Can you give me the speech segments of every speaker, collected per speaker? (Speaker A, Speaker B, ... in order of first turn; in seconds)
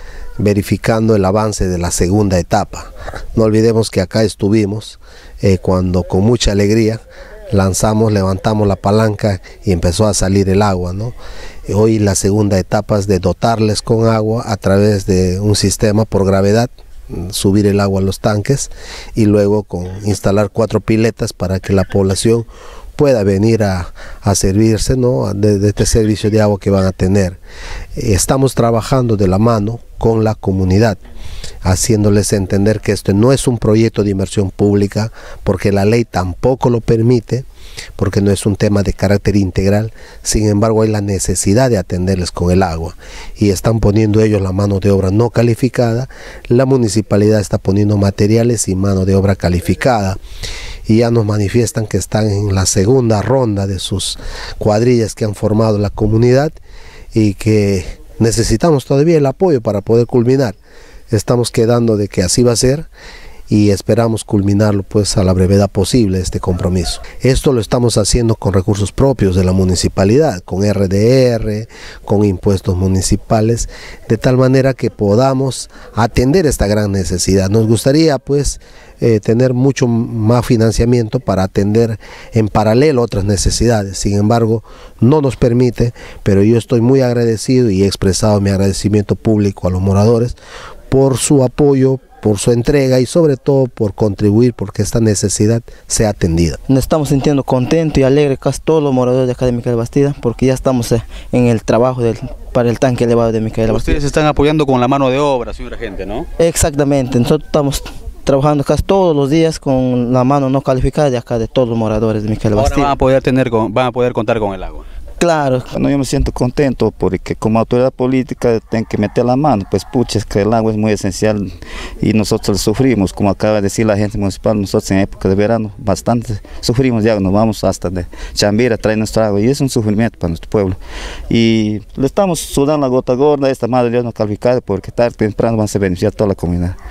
Speaker A: 0.4-11.2, 11.7-27.4, 27.9-31.0, 31.6-37.5, 38.0-50.2, 50.9-56.6, 57.1-60.6, 61.1-62.9, 63.5-90.4, 90.9-96.6
Speaker B: 96.7-104.0, 106.4-112.9, 115.2-115.7
Speaker C: 103.7-106.3, 112.5-114.8
Speaker D: 115.7-121.4, 122.0-130.8, 131.3-136.8